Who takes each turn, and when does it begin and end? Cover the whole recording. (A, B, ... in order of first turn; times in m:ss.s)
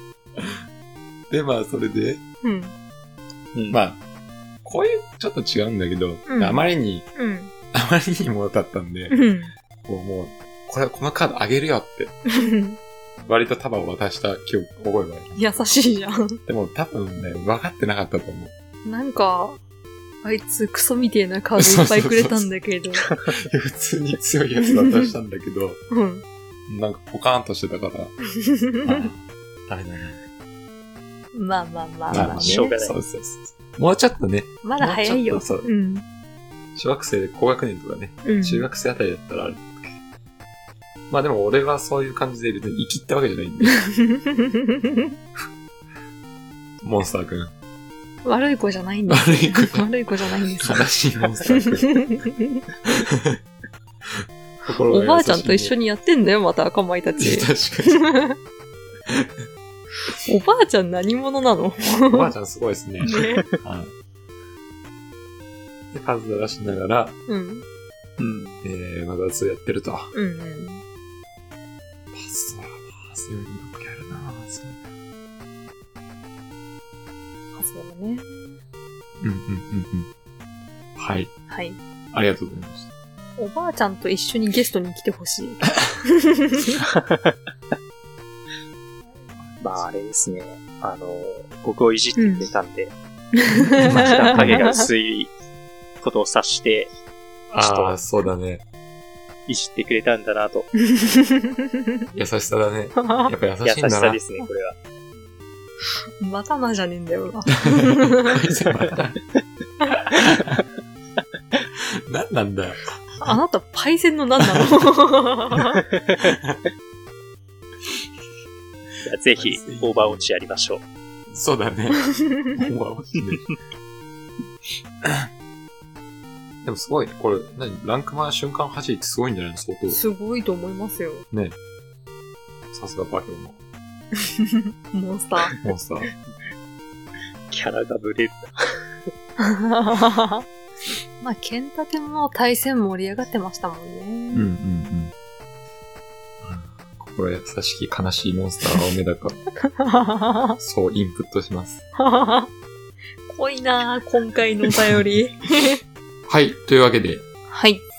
0:00.4-0:00.6 A
0:01.3-0:02.2 A
0:02.4-0:02.7 B
0:03.7-0:04.0 A
0:04.6-0:07.1 A
0:06.2-0:07.5 B
0:07.7-0:09.2 A
0:09.1-0:09.5 B
0:09.8-0:12.1 A
0:12.3-0:12.8 B
0:13.2-0:15.6 A
0:15.4-0:16.4 B
0:16.4-0:18.5 A
0:18.8-0:19.6 B
0:20.2-0:23.1 B
0:21.6-0:22.5 A
0:23.2-0:25.8 A
0:24.6-0:25.1 B
0:25.9-0:26.2 B
0:26.7-0:28.2 A
0:28.4-0:29.1 B
0:28.8-0:30.2 A
0:31.3-0:32.8 B
0:32.1-0:33.0 C
0:32.1-0:35.7 A
0:34.6-0:36.0 B
0:36.7-0:39.9 A
0:38.2-0:38.6 B
0:41.1-0:43.8 A
0:43.6-0:45.1 B
0:46.8-0:47.5 A
0:48.2-0:50.9 B
0:49.1-0:49.9 A
0:50.6-0:52.1 A
0:51.5-0:52.6 B
0:52.9-0:53.4 A
0:54.6-0:55.7 A
0:54.9-0:58.4 B
0:57.2-0:58.0 A
0:59.1-0:59.4 A
1:00.2-1:02.3 B
1:01.8-1:03.9 A
1:03.0-1:03.4 B
1:05.9-1:07.2 A
1:07.3-1:07.6 B
1:08.2-1:08.6 C
1:08.6-1:10.1 A
1:10.1-1:10.8 B
1:12.1-1:14.8 A
1:17.5-1:18.6 B
1:19.2-1:20.1 A
1:21.0-1:21.3 A
1:21.5-1:21.8 B
1:22.1-1:22.9 A
1:23.4-1:26.8 B
1:26.8-1:27.3 C
1:29.4-1:29.8 A
1:29.6-1:32.9 C
1:32.2-1:32.4 B
1:33.4-1:34.8 B
1:33.8-1:35.3 C
1:33.8-1:34.8 A
1:36.0-1:36.9 C
1:37.5-1:38.6 A
1:37.6-1:38.0 C
1:39.5-1:40.7 C
1:40.8-1:41.8 B
1:42.2-1:44.2 A
1:43.0-1:43.3 B
1:43.6-1:44.8 C
1:46.2-1:48.4 B
1:47.7-1:49.2 A
1:49.9-1:50.6 A
1:51.7-1:53.0 A
1:53.2-1:55.8 B
1:56.0-1:56.3 C
1:56.2-1:56.6 A
1:59.0-2:00.8 C
1:59.4-2:00.3 A
2:01.3-2:03.5 A
2:02.2-2:02.6 B
2:05.0-2:05.3 A
2:06.6-2:10.0 A
2:09.9-2:11.2 B
2:11.3-2:11.6 A
2:12.7-2:13.6 A
2:14.2-2:15.5 B
2:15.6-2:16.1 A
2:17.5-2:18.8 C
2:19.4-2:20.4 B
2:21.2-2:24.4 B
2:24.3-2:25.1 A
2:26.4-2:29.4 A
2:29.7-2:30.6 B
2:30.6-2:31.8 A
2:32.0-2:32.5 B
2:33.3-2:35.8 B
2:36.3-2:37.2 A
2:37.5-2:37.8 B